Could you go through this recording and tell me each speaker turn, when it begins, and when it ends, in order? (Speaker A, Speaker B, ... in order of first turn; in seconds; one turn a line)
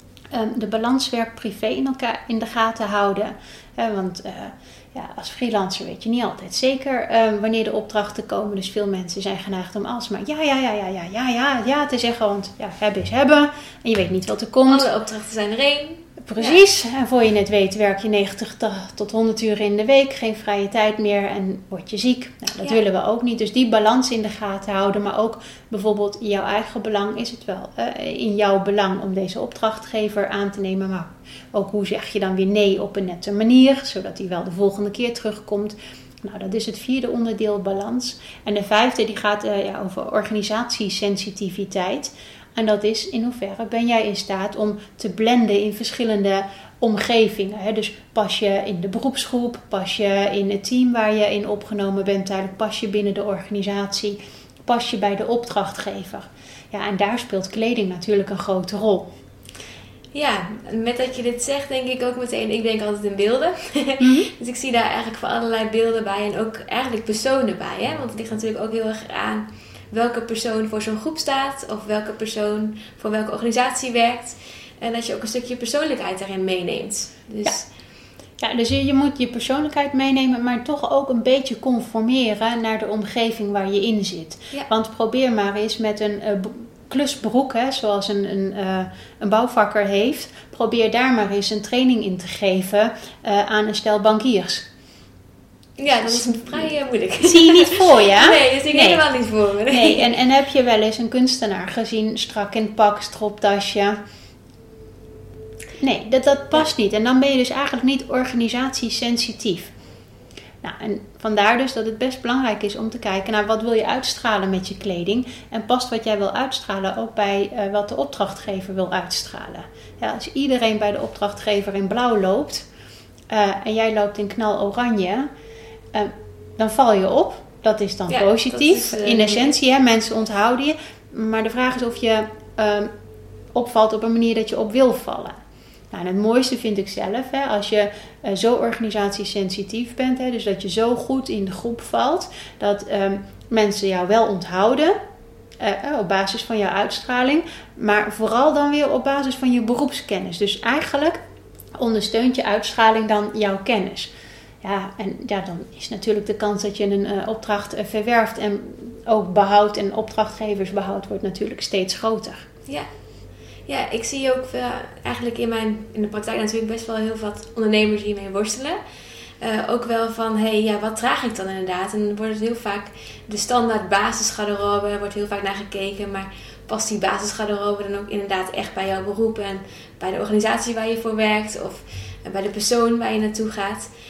Speaker A: 0.3-14.9
Speaker B: 14.7-16.6
Speaker A: 16.2-59.1
Speaker B: 60.1-77.7
Speaker A: 64.0-64.3
Speaker A: 78.4-94.7
Speaker B: 95.8-100.1
Speaker A: 96.0-96.7
Speaker A: 97.2-99.0
Speaker A: 99.7-104.0
Speaker A: 105.8-109.7
Speaker A: 110.6-122.7
Speaker A: 123.3-125.3
Speaker A: 125.9-132.9
Speaker B: 128.1-129.6
Speaker A: 133.5-135.3
Speaker A: 135.9-145.0
Speaker A: 145.6-151.2
Speaker A: 151.8-154.1
Speaker A: 154.6-162.4
Speaker B: 163.7-168.8
Speaker B: 169.4-183.9